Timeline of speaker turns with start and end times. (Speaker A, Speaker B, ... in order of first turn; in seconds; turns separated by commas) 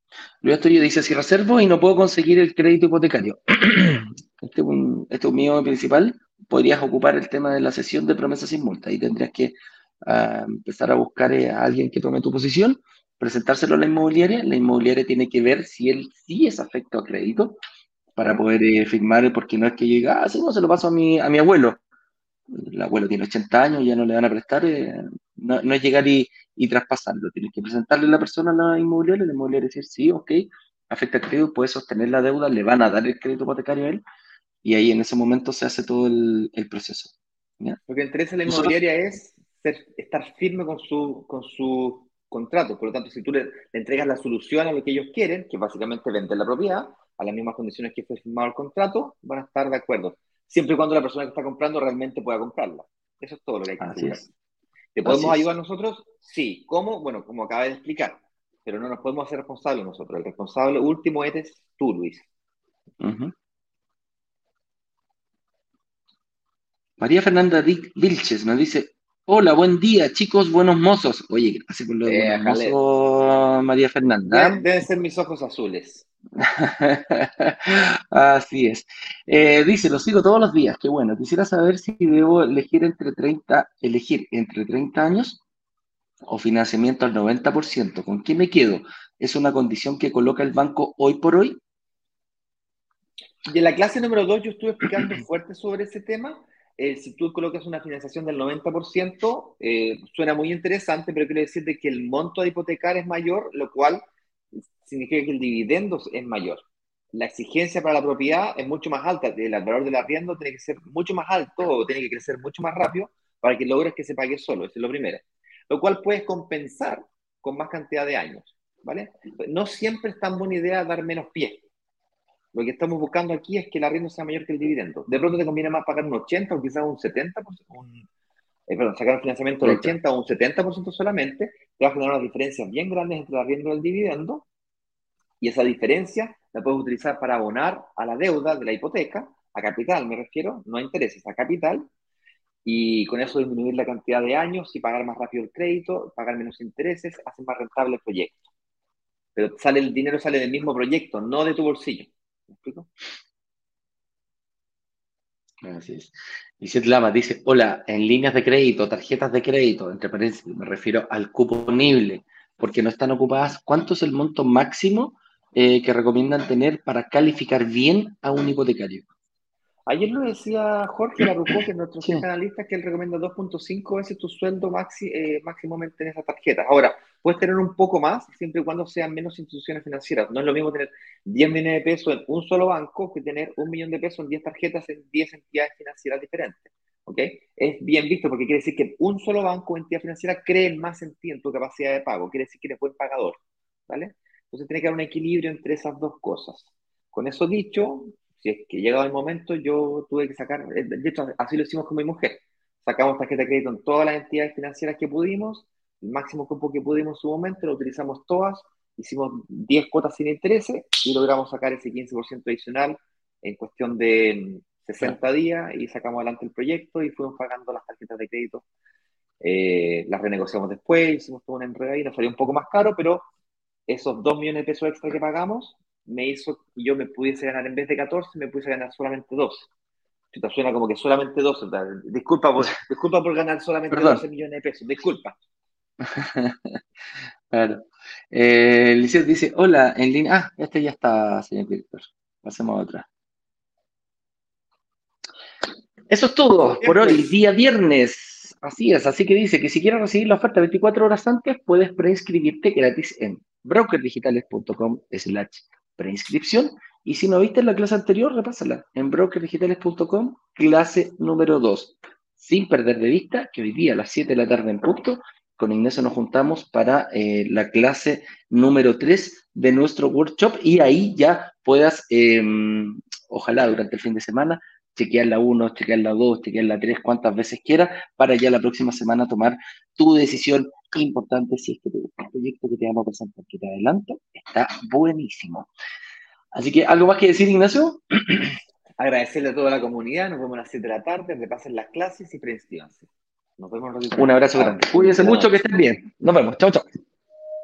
Speaker A: 0.4-17.6, Speaker A: 18.2-21.8, Speaker A: 22.5-34.0, Speaker A: 34.6-37.8, Speaker B: 37.9-54.3, Speaker A: 38.5-38.7, Speaker A: 53.8-54.3, Speaker B: 54.9-62.2, Speaker A: 55.0-55.5, Speaker A: 63.0-63.3, Speaker A: 67.0-74.6, Speaker B: 72.0-72.8, Speaker B: 74.3-76.1, Speaker A: 76.4-85.4, Speaker A: 86.3-91.6, Speaker B: 93.5-104.0, Speaker B: 104.6-106.6, Speaker B: 107.1-121.6, Speaker B: 122.5-128.1, Speaker B: 128.7-134.4, Speaker A: 129.6-129.9, Speaker B: 135.4-141.9, Speaker B: 142.6-148.4, Speaker B: 149.3-152.9, Speaker A: 155.6-169.1, Speaker B: 169.9-218.6, Speaker B: 219.4-223.3, Speaker B: 223.9-229.7, Speaker B: 230.3-235.4, Speaker A: 233.9-234.2, Speaker A: 236.0-236.8, Speaker A: 237.5-243.1, Speaker A: 246.1-285.7, Speaker A: 286.5-288.6, Speaker B: 289.0-295.6, Speaker A: 294.2-296.9